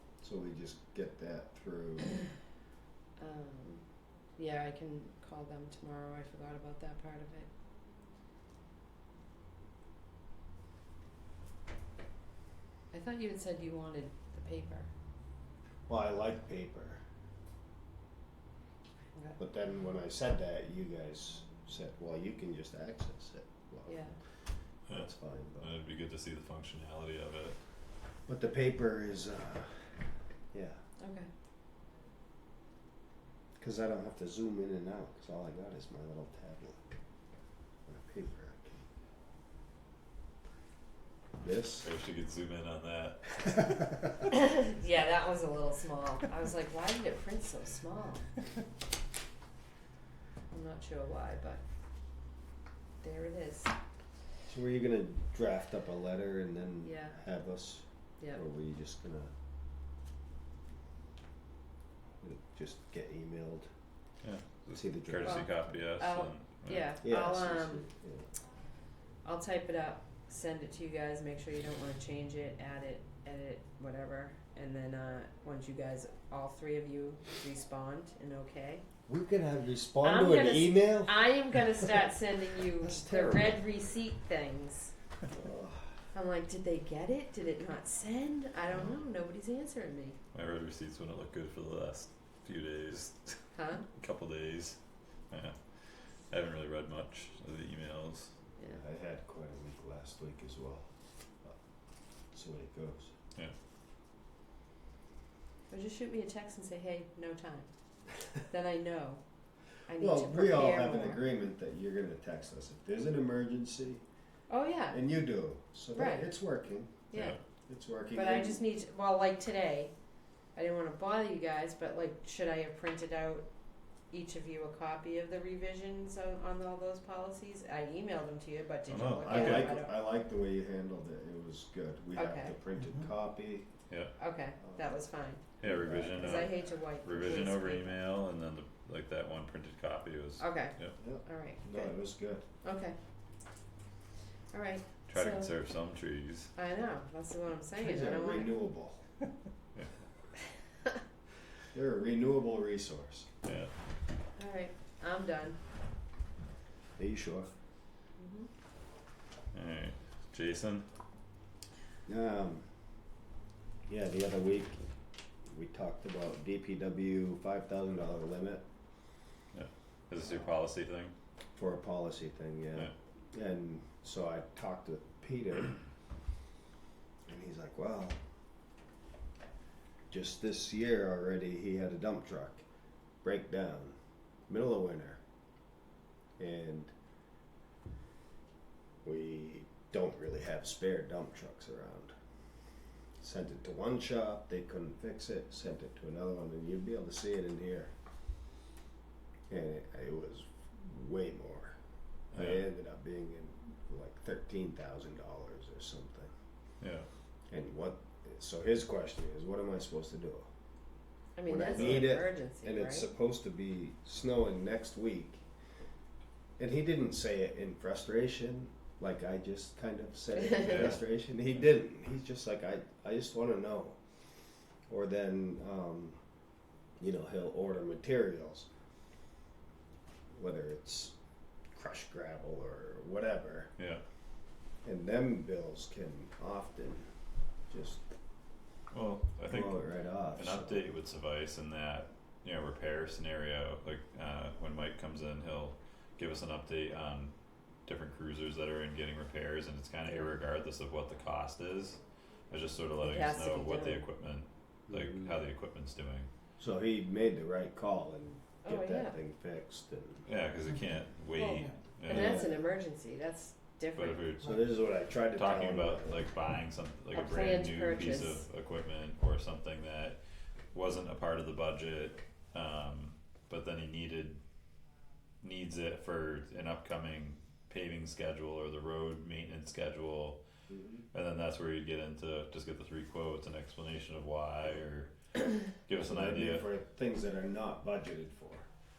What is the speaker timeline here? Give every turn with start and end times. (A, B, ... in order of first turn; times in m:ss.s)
0:00.2-0:02.2 A
0:03.2-0:03.8 B
0:04.4-0:07.5 B
0:12.9-0:14.9 B
0:15.9-0:17.0 A
0:19.4-0:24.1 A
0:23.9-0:24.2 B
0:24.9-0:27.6 C
0:24.9-0:25.7 A
0:28.3-0:29.9 A
0:30.5-0:30.8 A
0:31.0-0:31.3 B
0:33.6-0:36.8 A
0:37.9-0:38.8 A
0:41.4-0:41.9 A
0:41.8-0:44.0 C
0:44.4-0:48.3 B
0:50.5-0:51.6 B
0:53.0-0:53.7 B
0:54.5-0:59.3 A
0:56.8-0:57.2 B
1:02.2-1:03.7 A
1:04.2-1:06.9 C
1:04.7-1:05.5 A
1:05.2-1:07.8 B
1:07.0-1:08.2 A
1:09.2-1:18.8 B
1:19.1-1:21.8 A
1:20.0-1:24.9 B
1:22.8-1:23.6 A
1:25.3-1:25.9 A
1:26.1-1:30.2 B
1:30.3-1:34.8 C
1:33.6-1:33.8 B
1:35.3-1:35.6 C
1:36.3-1:38.3 C
1:38.7-1:40.8 A
1:42.3-1:43.1 A
1:45.7-1:47.7 B
1:48.5-1:49.2 B
1:49.9-1:51.2 B
1:50.0-1:54.0 A
1:54.5-1:55.0 B
1:54.9-1:57.1 A
1:55.9-1:56.3 B
1:57.1-1:57.4 B
1:57.1-1:57.4 C
1:57.7-1:58.6 A
1:58.1-1:59.9 B
2:00.6-2:03.4 B
2:04.1-2:09.9 B
2:08.9-2:09.8 C
2:09.2-2:13.7 A
2:12.2-2:12.6 B
2:14.2-2:15.4 B
2:14.6-2:15.0 A
2:15.6-2:21.0 C
2:15.6-2:16.5 A
2:16.0-2:18.0 B
2:20.4-2:21.9 B
2:21.0-2:22.4 A
2:22.6-2:23.0 B
2:24.5-2:25.5 B
2:25.1-2:26.5 C
2:26.6-2:28.6 B
2:27.8-2:29.0 A
2:31.7-2:33.3 A
2:33.4-2:33.7 C
2:34.4-2:35.6 B
2:37.0-2:37.5 A
2:38.2-2:38.5 B
2:39.5-2:40.9 C
2:42.1-2:42.7 A
2:43.9-2:44.8 A
2:45.5-2:48.6 A
2:49.5-2:51.1 C
2:51.6-2:55.8 A
2:57.3-2:58.2 A
3:00.1-3:02.6 A
3:03.2-3:04.0 A
3:04.5-3:05.2 A
3:06.4-3:06.9 A
3:09.0-3:12.1 A
3:13.2-3:17.9 A
3:19.5-3:21.8 A
3:22.3-3:26.3 A
3:22.3-3:22.6 C
3:26.8-3:27.1 C
3:27.5-3:30.5 A
3:31.4-3:33.1 B
3:31.5-3:35.4 A
3:31.8-3:32.1 C
3:36.6-3:44.0 A
3:40.4-3:40.9 B
3:40.7-3:41.0 C
3:44.9-3:46.2 A
3:47.0-3:48.7 A
3:50.3-3:51.1 A
3:51.7-3:53.7 A
3:54.8-3:57.1 A
3:57.7-3:58.0 A
3:58.9-4:07.3 C
3:59.5-4:00.9 A
4:07.9-4:12.0 C
4:12.5-4:16.3 C
4:13.0-4:14.0 B
4:16.6-4:20.2 A
4:18.6-4:19.1 B
4:20.2-4:22.4 C
4:22.1-4:24.2 B
4:22.1-4:22.6 A
4:23.9-4:24.5 C
4:24.4-4:26.2 A
4:25.4-4:30.2 C
4:27.1-4:28.4 B
4:30.7-4:34.4 C
4:35.4-4:40.4 C
4:41.1-4:45.1 C
4:45.7-4:46.7 C
4:46.0-4:48.7 A